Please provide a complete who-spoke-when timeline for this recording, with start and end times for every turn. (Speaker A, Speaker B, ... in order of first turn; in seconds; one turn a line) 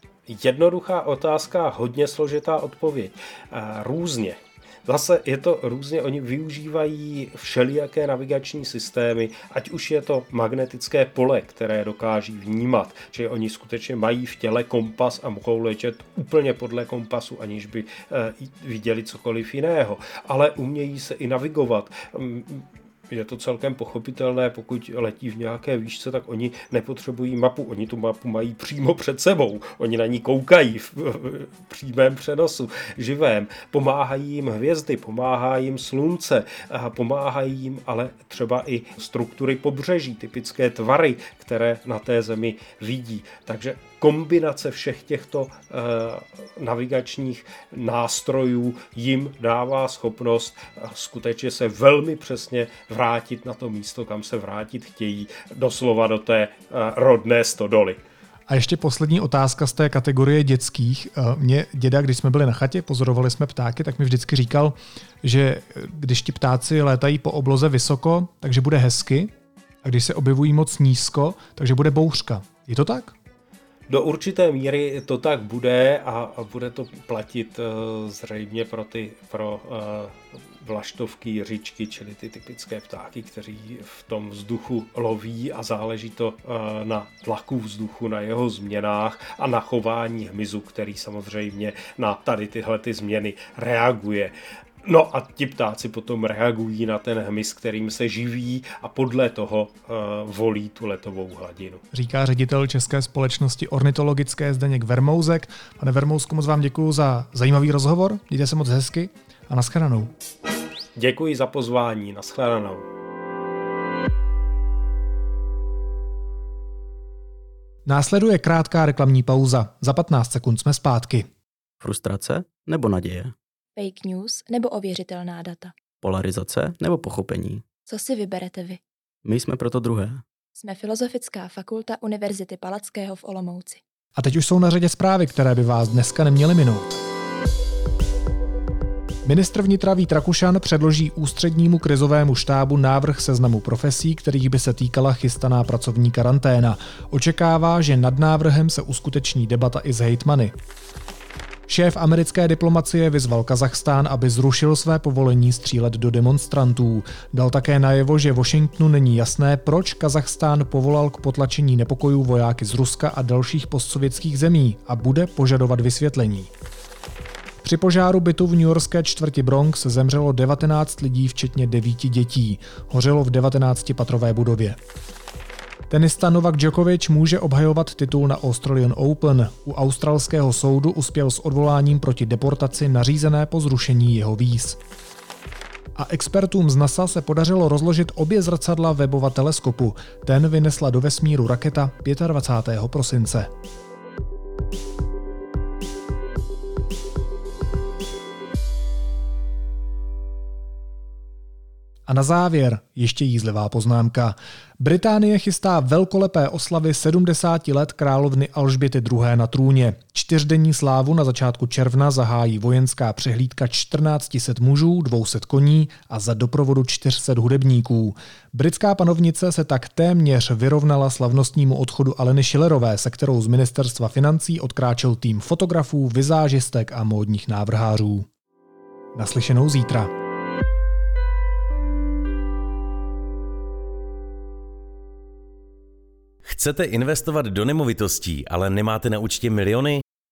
Speaker A: 0.3-58.0
Speaker B: 58.5-69.3
Speaker B: 69.8-73.2
Speaker A: 73.9-101.8
Speaker B: 101.9-110.1
Speaker A: 111.0-112.9
Speaker B: 117.9-121.3
Speaker C: 121.8-123.3
Speaker D: 123.8-125.7
Speaker C: 126.0-127.6
Speaker D: 127.9-128.8
Speaker C: 129.2-130.2
Speaker D: 130.6-133.8
Speaker B: 134.2-137.0
Speaker B: 139.2-150.5
Speaker B: 151.7-166.5
Speaker B: 167.6-174.8
Speaker B: 175.9-184.8
Speaker B: 185.9-193.5
Speaker B: 202.1-228.3
Speaker B: 229.2-230.1
Speaker E: 236.4-240.0